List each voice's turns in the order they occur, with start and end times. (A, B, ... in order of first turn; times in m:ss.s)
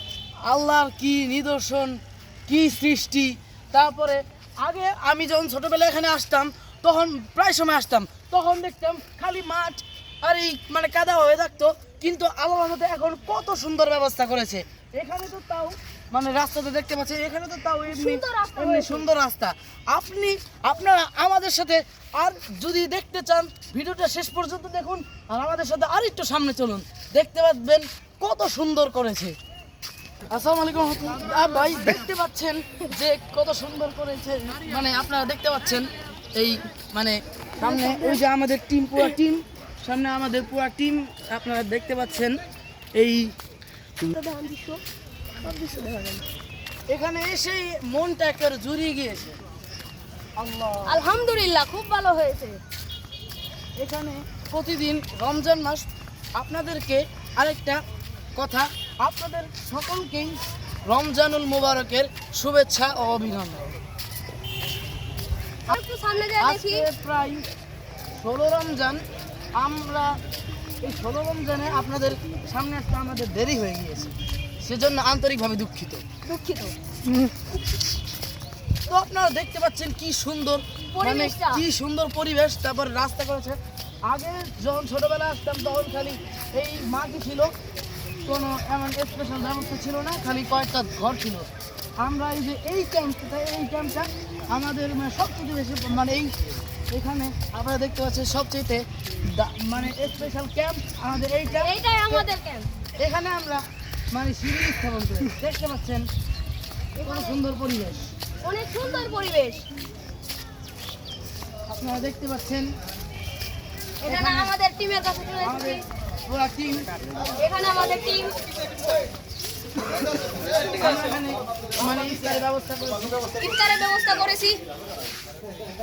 0:00.4-0:29.4 A
0:17.9-0:19.1 B
0:30.3-0:42.4 A
0:37.6-0:38.2 B
0:43.0-0:43.3 A
0:44.1-0:44.8 B
0:45.4-0:46.2 B
0:46.9-0:49.4 A
0:50.4-0:51.0 A
0:50.8-0:52.6 B
0:53.8-0:57.8 A
0:58.3-1:03.7 A
1:05.7-1:06.8 B
1:06.4-1:07.4 A
1:08.2-1:09.0 A
1:09.5-1:10.2 A
1:10.8-1:16.0 A
1:16.2-1:16.8 B
1:17.0-1:17.3 A
1:18.9-1:27.5 A
1:20.9-1:21.6 B
1:28.2-1:36.4 A
1:36.9-1:42.2 A
1:41.5-1:42.7 B
1:43.0-1:46.0 A
1:47.0-1:47.4 B
1:47.0-1:48.1 A
1:48.4-1:49.6 B
1:51.7-1:52.7 A
1:54.0-1:55.8 B
1:54.0-1:54.5 A
1:55.4-1:56.9 A
1:57.4-1:58.4 B
2:00.7-2:03.2 A
2:03.4-2:04.6 B